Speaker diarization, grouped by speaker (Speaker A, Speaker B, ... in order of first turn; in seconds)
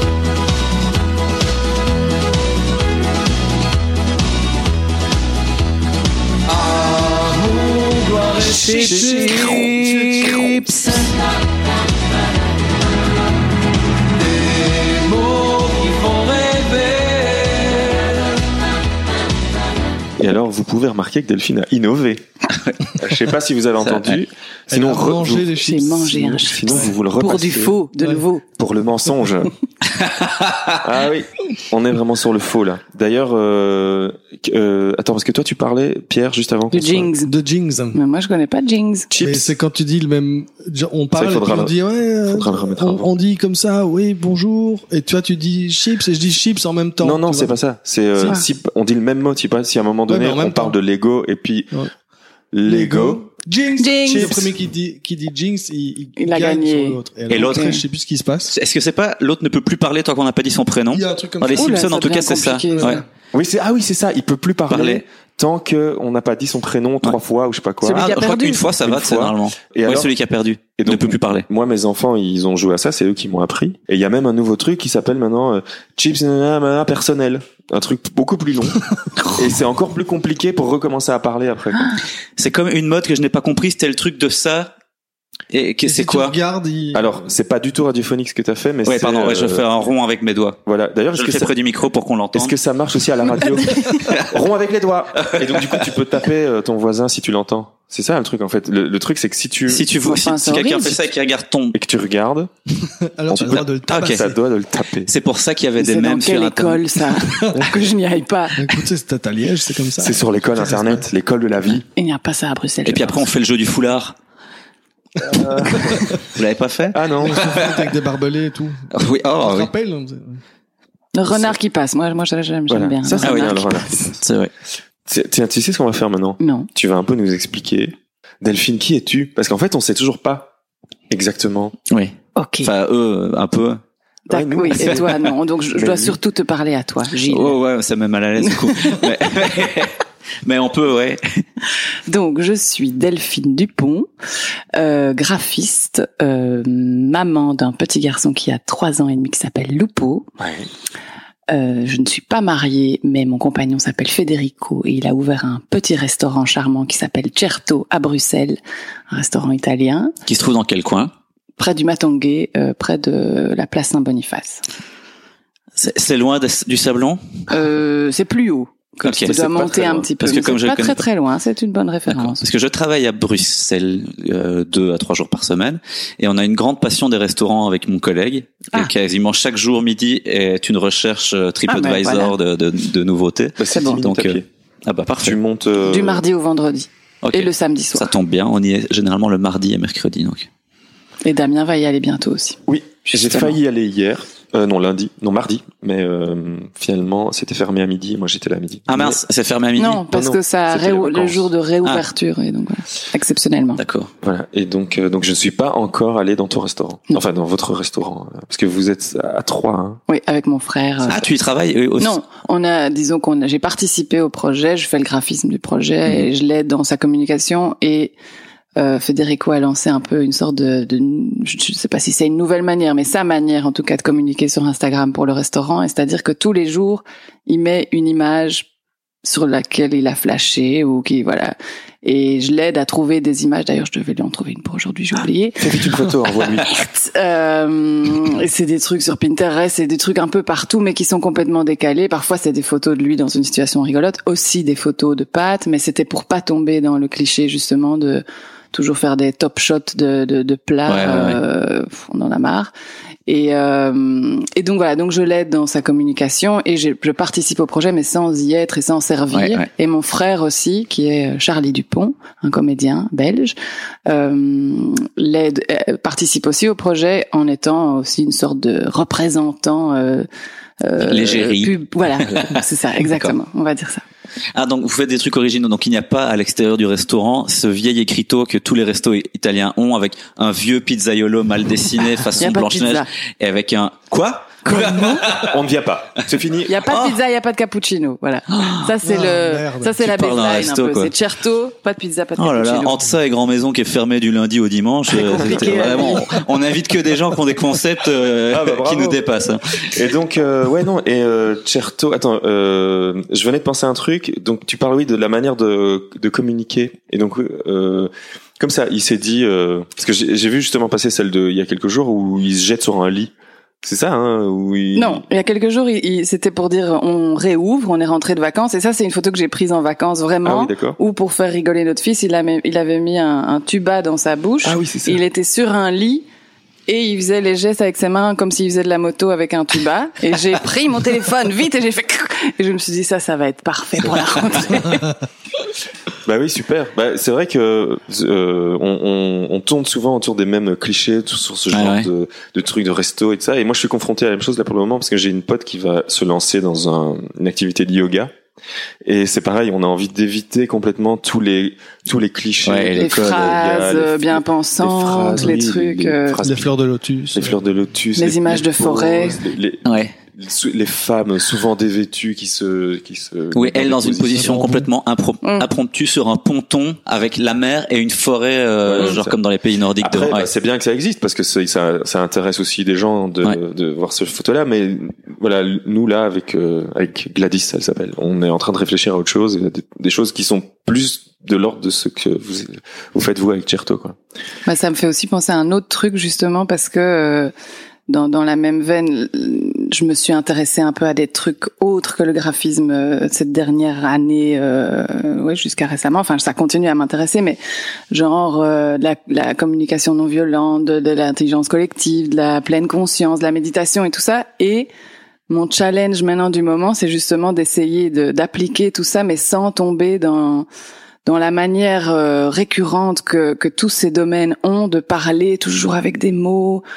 Speaker A: 6.6-11.2, 14.6-17.8, 23.9-24.2, 30.0-30.8, 57.3-57.8, 58.5-63.0, 64.7-65.0, 67.9-71.5, 82.4-84.7, 85.5-86.3, 88.8-90.6, 91.1-92.5, 93.9-94.3, 95.2-95.9, 99.7-101.7, 103.9-104.2, 105.1-107.0, 112.8-114.2, 115.8-117.9, 118.9-119.7, 123.2-123.7, 124.2-124.5, 131.9-133.8, 137.2-141.4, 160.3-161.1, 165.8-167.2, 169.0-169.3, 170.2-171.0, 172.1-185.4, 187.2-190.5, 198.9-200.0, 203.8-204.1, 211.1-212.2, 250.9-251.4, 259.3-259.7, 271.0-273.3, 274.5-285.5, 286.9-287.2, 288.5-288.9, 290.0-291.1, 292.4-299.9, 341.7-342.1, 352.6-353.4, 359.9-360.1, 363.5-370.5
Speaker B: 8.5-9.9, 25.6-28.4, 36.7-37.3, 37.9-39.1, 53.8-54.5, 56.2-57.8, 61.5-63.0, 67.8-68.7, 100.0-101.0, 105.8-108.8, 112.0-113.2, 121.1-123.9, 126.4-126.7, 132.3-132.7, 134.3-137.6, 138.5-139.1, 142.1-144.1, 144.7-150.3, 151.5-158.6, 159.1-160.1, 161.6-164.6, 167.5-172.4, 181.7-182.3, 183.7-184.0, 185.8-188.1, 191.2-192.6, 199.8-203.8, 210.1-211.3, 212.0-218.1, 218.8-228.7, 229.2-235.7, 236.6-252.7, 253.3-270.2, 270.8-274.0, 282.4-283.1, 284.6-285.4, 286.6-293.0, 295.1-296.4, 314.9-326.2, 326.9-335.1, 352.9-356.4, 358.2-359.4, 365.4-365.7, 384.6-387.5, 388.1-397.6, 398.1-404.9, 405.5-410.6, 411.2-416.8
Speaker C: 8.6-10.6, 24.7-26.9, 37.2-38.0, 39.2-47.5, 50.1-50.8, 52.6-58.5, 60.9-61.8, 62.7-63.0, 85.8-87.1, 102.9-104.4, 107.2-107.8, 108.5-111.0, 115.8-116.2, 117.2-118.8, 119.4-120.4, 289.0-289.9, 356.4-357.5, 364.4-364.9
Speaker D: 8.7-9.7, 20.2-22.2, 22.9-25.5, 26.2-27.7, 28.6-29.5, 30.8-37.1, 39.1-39.5, 41.1-41.7, 42.2-43.1, 47.0-51.8, 52.5-53.2, 63.3-70.1, 70.8-78.8, 79.3-82.0, 86.9-89.7, 90.6-91.5, 92.3-99.9, 101.7-102.5, 103.3-105.1, 110.0-111.8, 115.3-115.9, 116.9-117.5, 122.7-124.2, 125.0-130.5, 131.1-131.8, 134.3-136.2, 150.4-150.7, 169.2-170.1, 183.6-184.4, 185.2-186.2, 192.7-199.2, 200.1-201.4, 204.2-210.0, 235.6-236.7, 285.2-286.9, 298.5-299.2, 299.8-313.3, 313.8-315.2, 320.4-321.0, 324.6-325.2, 336.2-348.3, 349.0-356.7, 357.3-364.5, 368.8-369.4, 370.0-384.2